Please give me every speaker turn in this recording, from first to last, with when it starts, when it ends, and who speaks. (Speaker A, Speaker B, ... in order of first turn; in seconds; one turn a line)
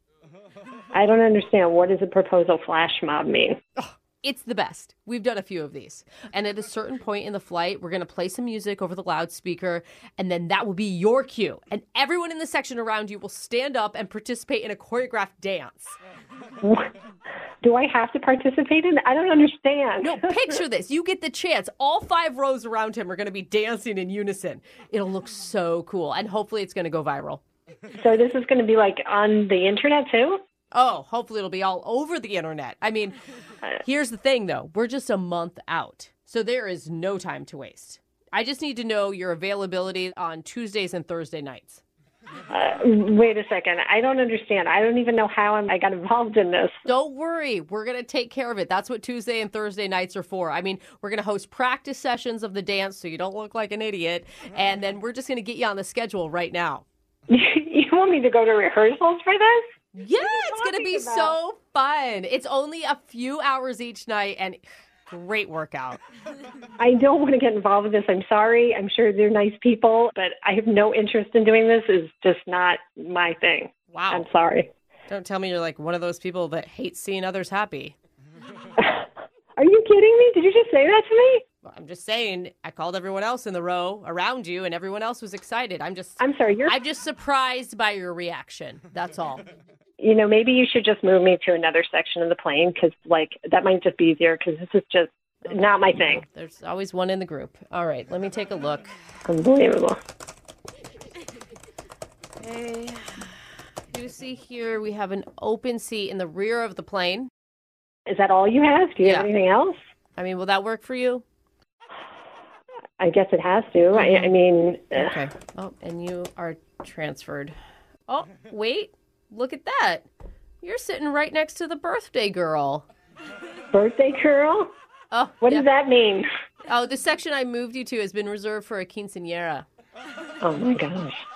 Speaker A: 0.9-3.6
Speaker B: 3.8-15.9
Speaker A: 16.6-16.9
Speaker A: 17.6-20.6
Speaker B: 20.0-27.4
Speaker A: 27.9-30.4
Speaker B: 30.7-33.1
Speaker B: 33.8-41.8
Speaker A: 42.5-46.8
Speaker B: 46.9-56.8
Speaker A: 57.3-59.6
Speaker B: 60.0-66.0
Speaker A: 60.1-61.4
Speaker A: 66.8-74.7
Speaker B: 73.9-74.3
Speaker B: 75.1-78.0
Speaker A: 78.8-81.4
Speaker B: 81.6-89.4
Speaker A: 86.2-86.8
Speaker A: 90.0-96.2
Speaker B: 95.5-98.9
Speaker A: 99.3-100.0
Speaker B: 102.4-103.2
Speaker B: 103.9-107.3
Speaker A: 108.1-109.8
Speaker B: 109.0-109.3
Speaker B: 110.2-111.2
Speaker A: 113.0-115.1
Speaker B: 113.9-114.3
Speaker B: 114.9-117.6
Speaker B: 118.1-120.1
Speaker B: 120.6-122.8
Speaker A: 123.7-124.7
Speaker B: 125.1-125.7
Speaker A: 125.4-126.3
Speaker B: 126.7-129.7
Speaker A: 130.4-131.2